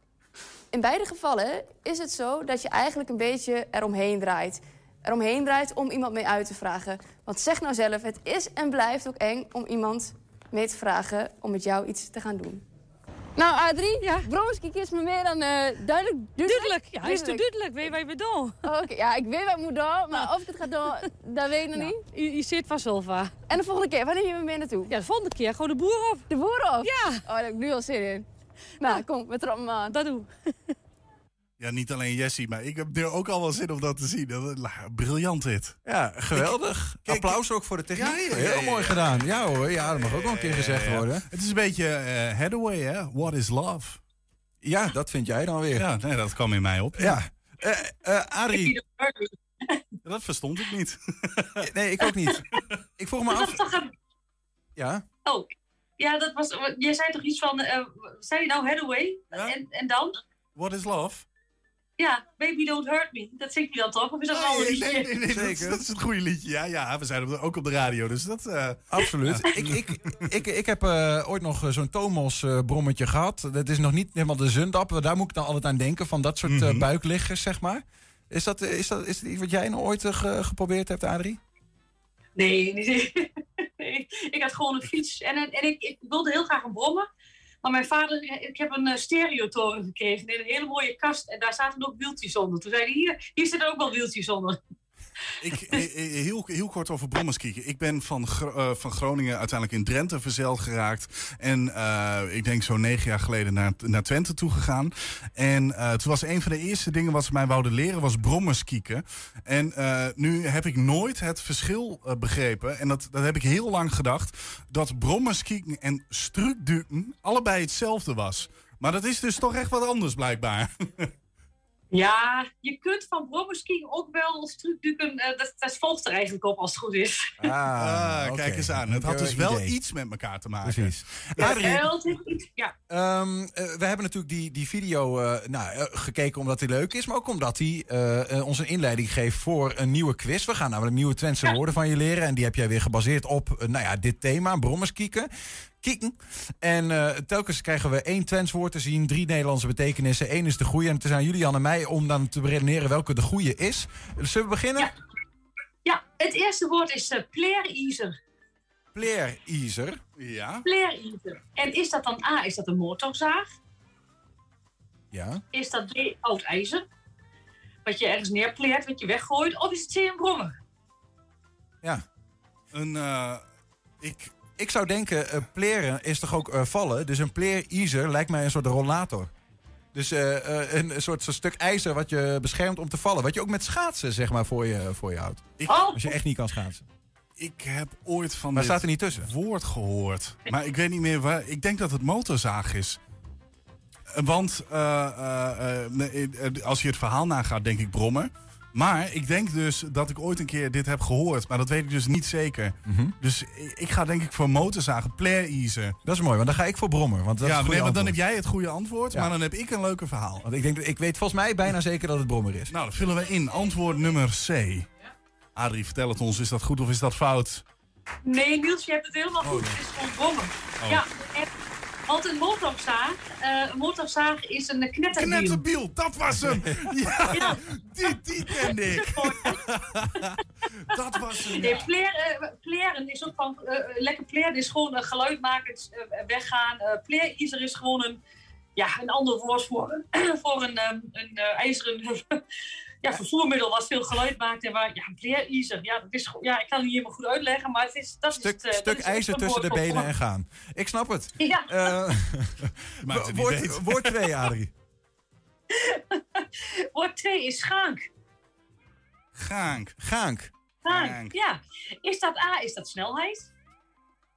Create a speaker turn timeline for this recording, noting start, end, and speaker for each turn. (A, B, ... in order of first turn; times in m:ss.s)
0:00.7-0:12.6 A
0:13.4-0:17.5 A
0:14.0-0:14.3 B
0:16.4-0:18.6 B
0:18.6-0:22.0 A
0:21.7-0:23.3 B
0:23.5-0:24.9 A
0:24.9-0:26.3 B
0:26.3-0:28.3 A
0:26.8-0:27.2 B
0:28.8-0:30.0 A
0:29.9-0:30.7 B
0:31.6-0:35.8 C
0:35.9-0:41.2 D
0:36.3-0:37.4 C
0:38.0-0:44.0 C
0:44.6-0:45.9 D
0:45.8-0:47.2 C
0:47.0-0:48.7 D
0:48.5-0:49.8 E
0:50.0-0:51.6 C
0:51.6-0:53.6 D
0:53.3-0:53.9 E
0:54.8-0:55.0 D
0:55.2-1:00.2 E
1:00.6-1:01.2 C
1:02.0-1:05.2 E
1:04.3-1:09.8 C
1:05.3-1:05.8 D
1:08.9-1:21.4 D
1:16.5-1:16.9 C
1:22.4-1:27.1 E
1:27.6-1:34.6 E
1:35.4-2:01.1 C
2:01.9-2:07.5 E
2:07.4-2:09.8 D
2:07.8-2:11.6 C
2:10.6-2:11.9 D
2:11.4-2:12.7 E
2:12.9-2:25.3 D
2:25.8-2:34.9 D
2:35.8-2:38.2 E
2:38.9-2:40.0 D
2:40.2-2:40.7 C
2:40.6-2:43.5 E
2:45.1-2:45.4 D
2:45.5-2:46.8 E
2:47.8-2:50.5 E
2:52.7-2:53.4 C
2:54.0-2:54.4 C
2:54.6-2:59.3 D
2:59.9-3:06.8 D
3:05.6-3:06.0 C
3:05.7-3:06.0 E
3:07.4-3:13.0 C
3:08.5-3:09.3 D
3:14.1-3:26.0 C
3:22.8-3:23.1 D
3:26.0-3:28.2 D
3:27.4-3:30.4 C
3:30.4-3:32.7 D
3:32.7-3:34.9 C
3:35.6-3:37.6 C
3:38.2-3:41.5 E
3:39.4-3:39.8 C
3:42.1-3:45.6 E
3:45.1-3:50.1 C
3:47.3-3:47.6 E
3:48.8-3:49.6 E
3:50.9-3:51.9 C
3:51.5-3:58.2 E
3:58.8-4:02.4 E
4:03.0-4:10.1 E
4:08.4-4:14.7 D
4:11.4-4:11.9 E
4:13.0-4:14.1 C
4:15.7-4:18.0 E
4:19.4-4:20.0 C
4:20.0-4:20.5 D
4:20.8-4:23.5 E
4:20.9-4:21.4 C